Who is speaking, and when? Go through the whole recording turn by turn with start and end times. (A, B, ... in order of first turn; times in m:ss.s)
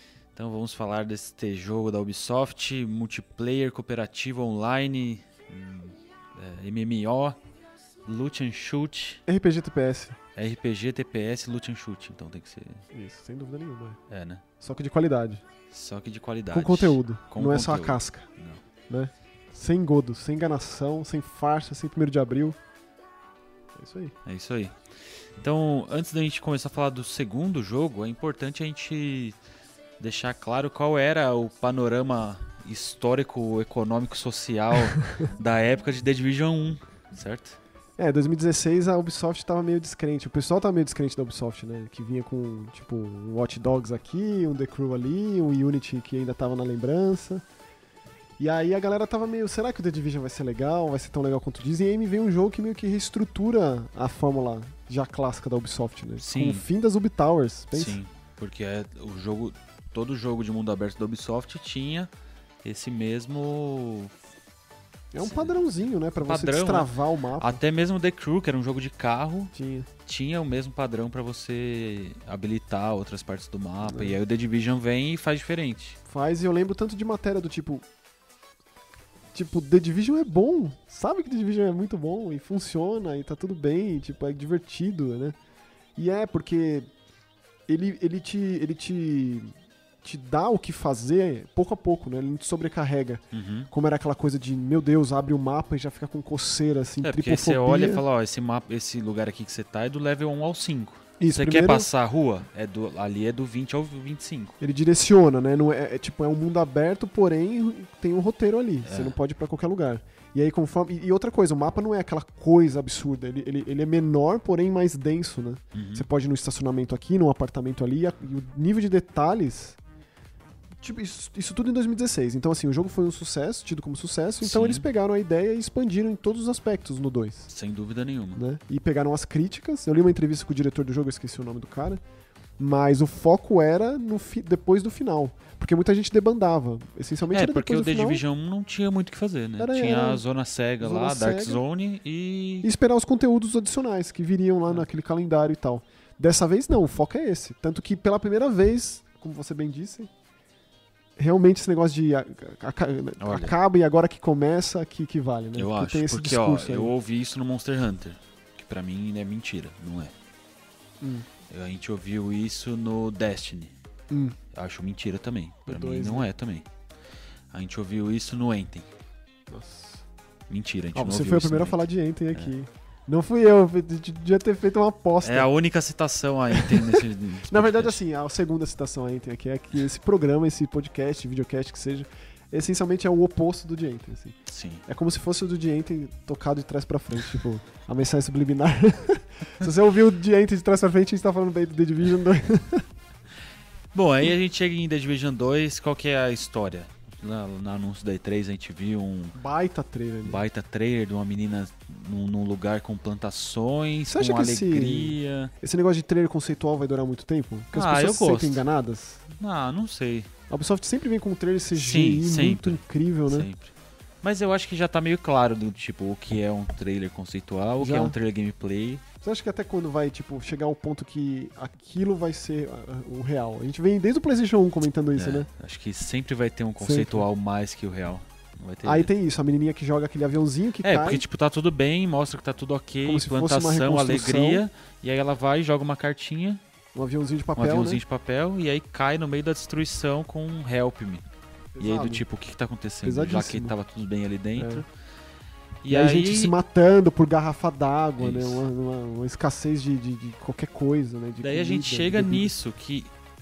0:00.3-0:07.4 A
0:08.0-0:09.2 A
0:09.2-0:10.2 B
0:10.3-0:12.8 A
0:12.9-0:14.0 B
0:14.1-0:14.4 A
0:14.6-0:15.4 B
0:15.7-0:18.6 A
0:16.5-0:18.3 B
0:18.9-0:22.6 B
0:23.7-0:24.1 B
0:24.2-0:24.8 A
0:25.4-0:29.4 A
0:30.0-0:37.6 A
0:38.0-0:47.4 B
0:48.4-0:58.0 B
0:56.2-0:56.6 A
0:57.7-1:02.1 A
1:02.6-1:04.2 A
1:05.1-1:07.6 B
1:05.2-1:05.6 A
1:06.2-1:09.5 A
1:09.5-1:09.9 B
1:10.0-1:16.0 A
1:13.8-1:14.2 B
1:16.1-1:17.8 B
1:19.3-1:25.4 B
1:26.0-1:26.9 B
1:27.7-1:29.5 B
1:30.0-1:38.0 B
1:33.3-1:33.7 A
1:37.0-1:44.6 A
1:41.2-1:41.9 B
1:44.6-1:59.8 B
1:48.8-1:49.2 A
1:55.7-1:56.1 A
2:00.8-2:07.5 B
2:04.4-2:04.9 A
2:07.5-2:08.4 A
2:08.3-2:12.0 B
2:12.6-2:18.2 B
2:17.3-2:22.7 A
2:19.6-2:20.2 B
2:20.8-2:21.6 B
2:22.6-2:30.1 B
2:31.2-2:36.9 B
2:33.2-2:33.5 A
2:35.5-2:40.1 A
2:41.0-2:41.3 B
2:41.5-2:43.7 A
2:44.1-2:44.4 B
2:44.5-2:46.7 A
2:45.7-2:46.3 B
2:47.5-2:48.9 A
2:49.5-2:50.0 B
2:50.5-2:52.5 A
2:50.9-2:55.5 B
2:55.2-2:58.0 A
2:56.5-3:12.8 B
3:04.5-3:04.8 A
3:13.9-3:19.4 A
3:19.3-3:20.4 B
3:20.2-3:25.5 A
3:24.1-3:29.3 B
3:27.7-3:28.6 A
3:29.4-3:30.3 A
3:30.5-3:33.5 B
3:31.7-3:39.0 A
3:37.8-3:38.1 B
3:39.2-3:45.5 B
3:45.1-3:49.1 A
3:46.8-3:47.2 B
3:48.8-3:51.2 B
3:50.8-3:56.6 A
3:53.0-3:54.6 B
3:56.9-3:58.0 B
3:57.6-4:01.2 A
4:01.7-4:02.2 B
4:01.8-4:04.8 A
4:03.0-4:03.7 B
4:04.6-4:04.8 B
4:05.8-4:06.5 A
4:05.9-4:12.5 B
4:08.2-4:08.6 A
4:11.4-4:13.1 A